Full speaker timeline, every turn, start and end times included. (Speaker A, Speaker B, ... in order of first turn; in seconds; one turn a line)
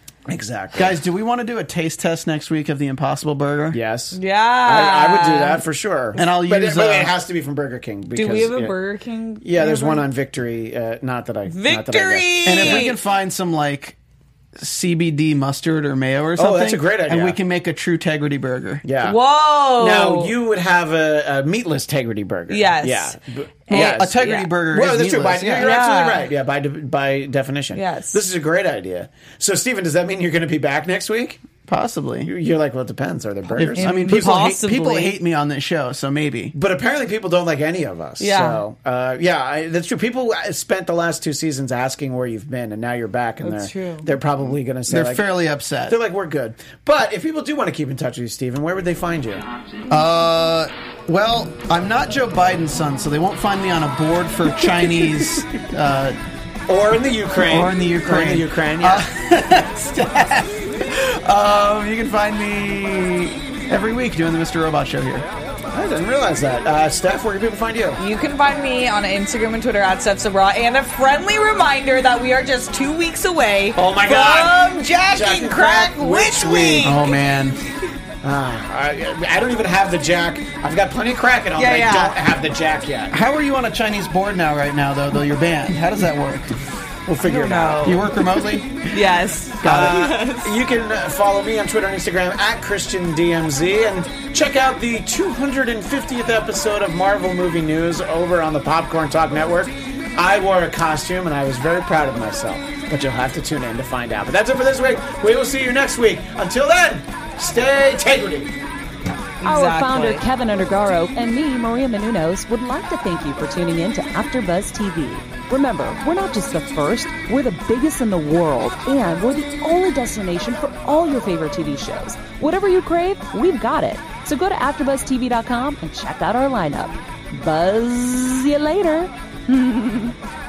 Speaker A: 0.3-1.0
Speaker B: 0.8-3.8
Speaker A: 3.7-8.7
Speaker C: 4.1-5.6
Speaker B: 6.2-7.1
Speaker C: 8.1-10.0
Speaker A: 9.4-12.8
Speaker C: 11.5-12.9
Speaker B: 12.4-13.9
Speaker B: 14.6-18.8
Speaker A: 16.4-17.4
Speaker A: 18.8-19.2
Speaker C: 19.0-20.3
Speaker A: 19.7-31.4
Speaker C: 22.5-23.1
Speaker C: 23.7-24.5
Speaker B: 23.7-25.8
Speaker C: 25.6-26.3
Speaker C: 27.7-28.2
Speaker B: 31.7-32.3
Speaker A: 32.2-34.0
Speaker B: 33.6-36.5
Speaker C: 33.8-35.1
Speaker A: 36.5-45.3
Speaker C: 38.2-38.6
Speaker C: 43.4-44.1
Speaker B: 44.9-46.0
Speaker A: 45.9-49.5
Speaker B: 49.9-56.2
Speaker A: 54.9-55.2
Speaker A: 56.7-59.1
Speaker B: 57.5-65.2
Speaker A: 65.7-68.0
Speaker C: 68.0-77.1
Speaker A: 73.7-77.0
Speaker B: 76.8-77.6
Speaker A: 78.2-83.1
Speaker C: 81.5-82.2
Speaker B: 83.1-86.6
Speaker A: 87.0-88.0
Speaker C: 87.2-88.0
Speaker B: 87.8-88.8
Speaker C: 88.9-90.5
Speaker B: 89.6-90.1
Speaker A: 89.6-108.5
Speaker C: 109.4-110.2
Speaker D: 109.4-130.1